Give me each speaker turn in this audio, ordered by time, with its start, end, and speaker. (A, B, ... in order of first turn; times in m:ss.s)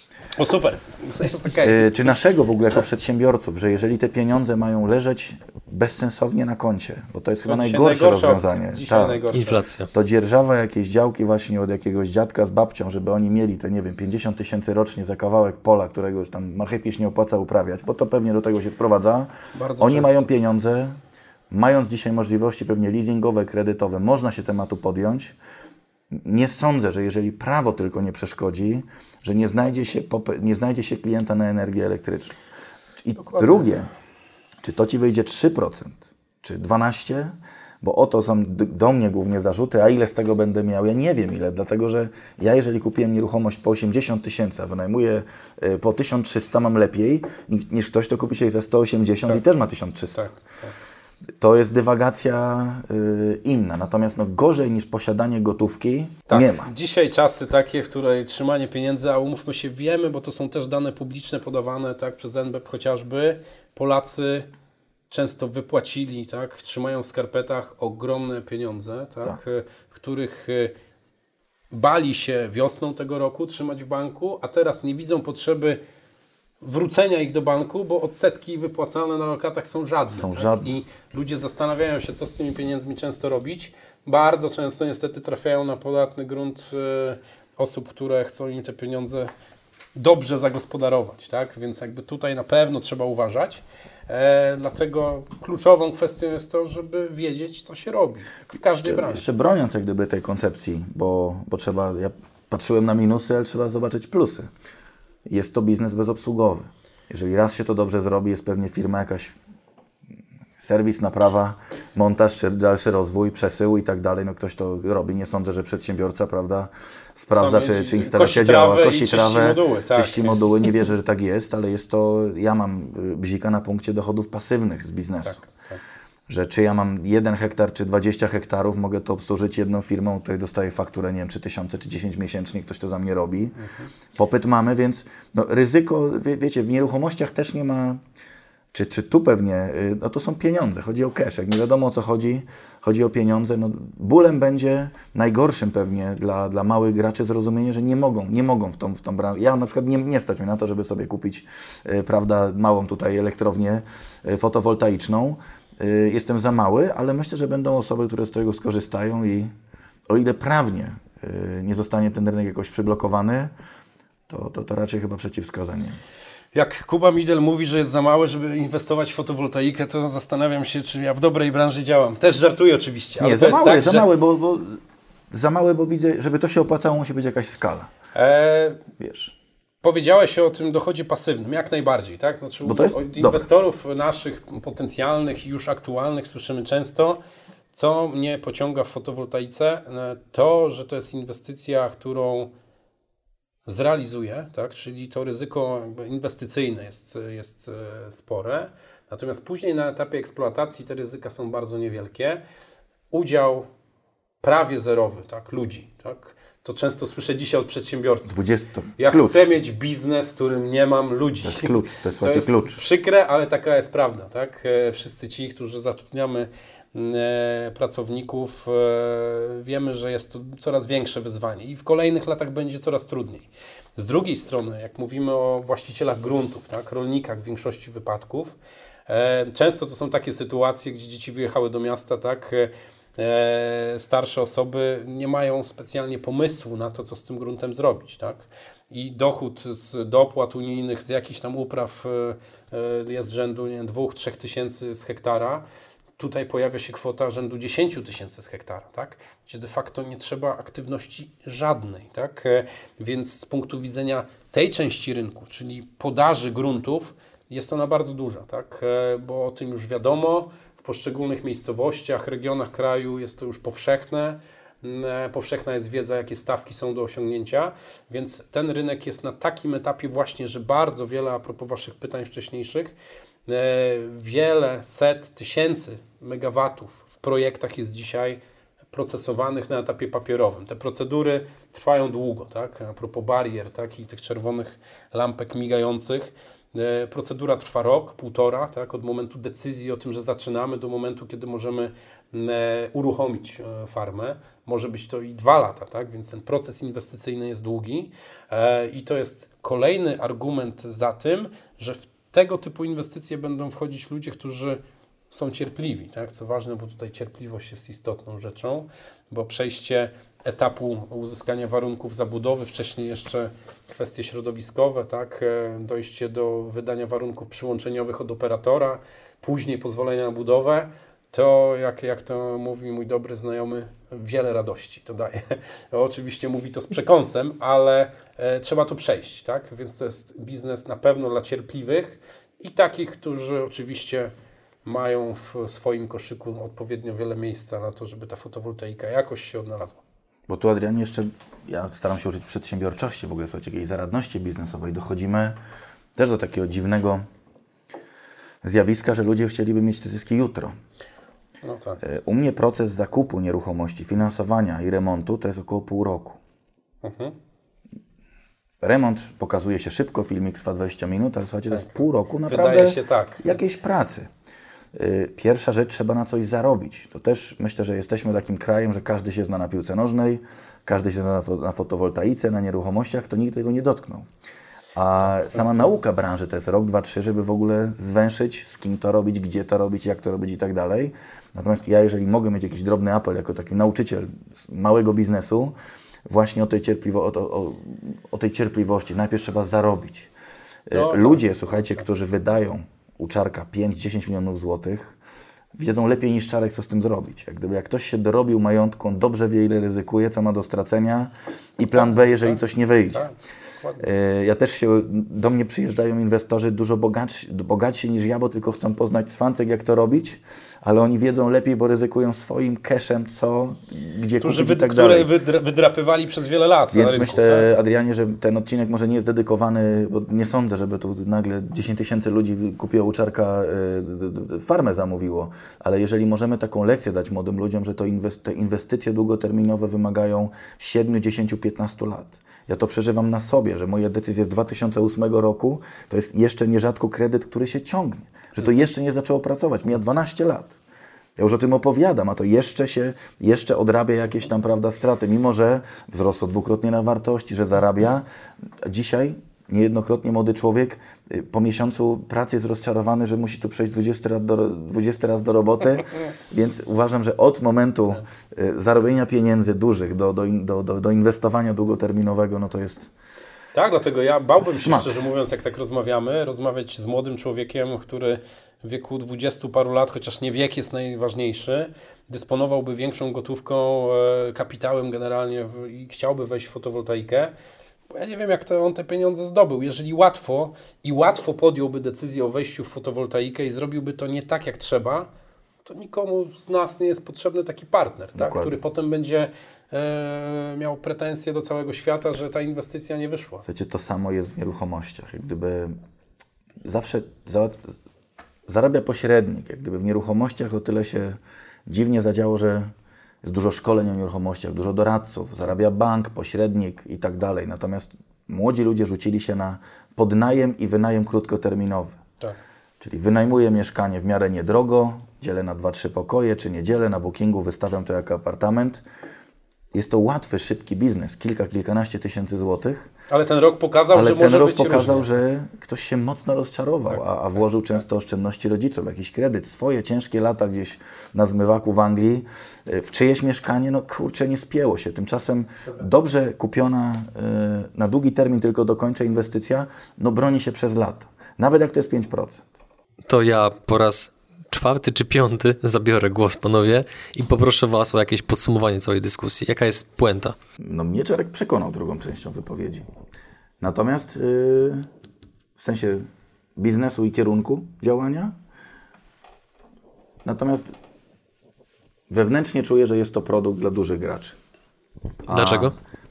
0:00.4-0:01.9 A
0:01.6-0:09.2 B
0:07.4-0:09.6 A
0:09.3-0:09.9 C
0:09.9-0:21.0 B
0:19.5-0:20.3 A
0:21.5-0:25.3 B
0:26.1-0:32.4 B
0:33.0-0:33.9 B
0:33.3-0:33.7 A
0:34.6-0:50.3 B
0:50.2-0:50.7 A
0:51.4-0:56.7 B
0:56.3-1:04.5 A
1:05.1-1:10.7 A
1:11.7-1:15.8 A
1:16.6-1:29.3 A
1:20.1-1:20.7 B
1:30.0-1:39.2 A
1:38.7-1:44.5 B
1:45.3-1:49.3 B
1:50.6-2:05.4 B
1:57.3-2:00.4 A
2:05.2-2:05.8 A
2:06.3-2:13.6 B
2:13.6-2:13.9 A
2:14.2-2:18.0 B
2:18.7-2:39.5 B
2:40.1-2:43.5 B
2:44.3-2:46.0 B
2:46.5-2:54.0 A
2:53.2-2:57.9 B
2:58.1-2:58.8 A
2:59.0-2:59.3 B
2:59.8-3:07.2 A
3:02.6-3:03.5 B
3:07.7-3:12.5 A
3:13.6-3:22.4 A
3:23.1-3:23.6 A
3:24.4-3:28.3 A
3:28.3-3:29.5 B
3:29.0-3:48.6 A
3:31.4-3:32.8 B
3:49.1-4:05.6 A
4:06.2-4:32.9 A
4:33.5-4:38.4 A
4:38.9-5:34.3 A
5:34.8-5:40.0 A
5:40.5-5:45.6 B
5:46.2-5:47.2 B
5:48.6-5:50.7 B
5:51.6-5:52.0 A
5:52.0-5:56.4 B
5:57.0-5:57.3 A
5:58.8-6:04.3 B
6:01.7-6:03.6 A
6:04.9-6:14.3 B
6:14.9-6:25.7 B
6:15.5-6:15.8 A
6:26.3-6:30.3 B
6:30.9-6:35.2 B
6:30.9-6:32.0 A
6:35.7-6:43.2 B
6:42.0-6:44.1 A
6:44.0-6:55.3 B
6:54.4-6:57.7 A
6:56.9-7:20.7 B
7:21.4-7:28.2 B
7:28.8-7:43.1 B
7:43.7-7:57.5 A
7:44.6-7:45.2 B
7:58.1-8:05.3 A
8:05.8-8:13.6 A
8:08.4-8:08.8 B
8:13.7-8:16.0 B
8:16.8-8:17.9 B
8:18.7-8:22.9 B
8:23.4-8:32.2 B
8:33.0-8:39.0 B
8:39.9-8:43.1 B
8:43.3-8:45.4 A
8:44.1-9:02.6 B
9:03.3-9:10.6 C
9:10.8-9:13.1 B
9:13.8-9:15.1 B
9:15.8-9:16.2 B
9:16.8-9:18.5 B
9:20.4-9:20.9 B
9:22.3-9:24.6 B
9:25.4-9:25.9 B
9:25.5-9:25.9 C